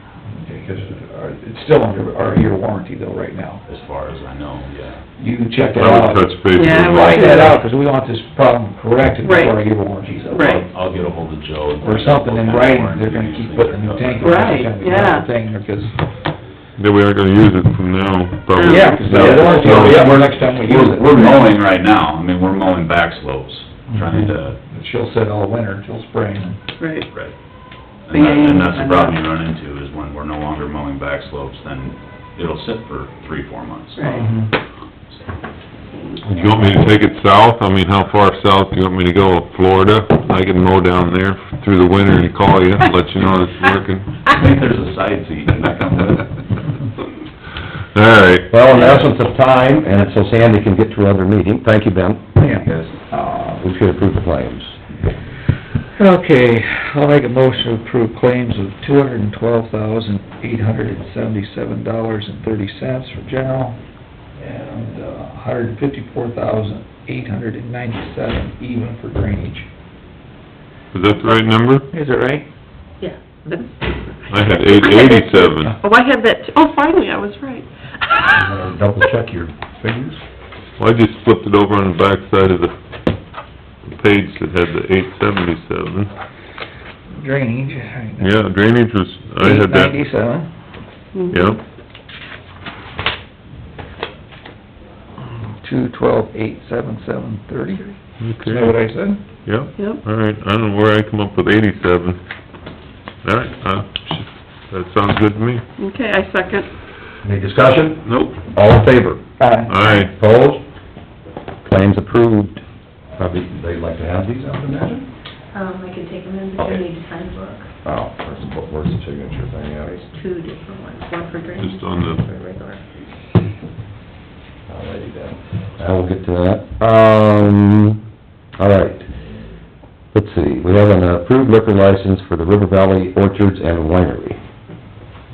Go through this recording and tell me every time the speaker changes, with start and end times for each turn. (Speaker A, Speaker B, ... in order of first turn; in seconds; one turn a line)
Speaker A: 0.3-3.6
Speaker B: 3.6-5.0
Speaker A: 5.2-10.5
Speaker C: 5.7-7.5
Speaker D: 6.5-7.6
Speaker D: 9.2-9.6
Speaker D: 10.3-10.6
Speaker B: 10.4-14.5
Speaker A: 11.8-15.9
Speaker D: 14.2-15.3
Speaker C: 16.8-20.1
Speaker D: 18.6-19.7
Speaker A: 18.6-21.5
Speaker B: 19.0-24.6
Speaker A: 23.9-26.6
Speaker D: 26.8-27.1
Speaker B: 27.1-27.4
Speaker B: 28.1-34.3
Speaker D: 28.1-29.2
Speaker D: 34.0-34.2
Speaker A: 34.0-34.5
Speaker C: 36.2-44.1
Speaker B: 44.2-46.3
Speaker C: 47.9-49.0
Speaker E: 48.5-52.2
Speaker B: 48.7-49.1
Speaker A: 52.4-53.6
Speaker E: 53.6-54.8
Speaker A: 55.9-63.8
Speaker A: 64.3-69.7
Speaker C: 70.9-71.8
Speaker A: 71.9-72.5
Speaker F: 73.0-75.9
Speaker C: 74.3-75.8
Speaker D: 74.8-75.1
Speaker D: 75.8-77.7
Speaker E: 78.3-80.2
Speaker C: 80.8-82.7
Speaker C: 83.9-86.1
Speaker A: 87.1-88.3
Speaker C: 88.2-90.0
Speaker A: 89.4-90.5
Speaker D: 91.1-91.5
Speaker C: 91.3-91.6
Speaker A: 95.6-99.2
Speaker C: 98.2-98.8
Speaker C: 99.4-102.2
Speaker C: 103.2-105.6
Speaker D: 105.8-106.7
Speaker E: 107.2-109.2
Speaker C: 108.0-108.3
Speaker A: 109.4-110.0
Speaker C: 109.7-110.1
Speaker E: 109.9-110.6
Speaker E: 111.6-112.6
Speaker E: 113.2-115.1
Speaker F: 115.5-117.7
Speaker E: 117.8-120.0
Speaker F: 119.9-122.8
Speaker C: 121.6-122.2
Speaker E: 124.7-128.0
Speaker E: 128.6-129.1
Speaker E: 130.1-134.4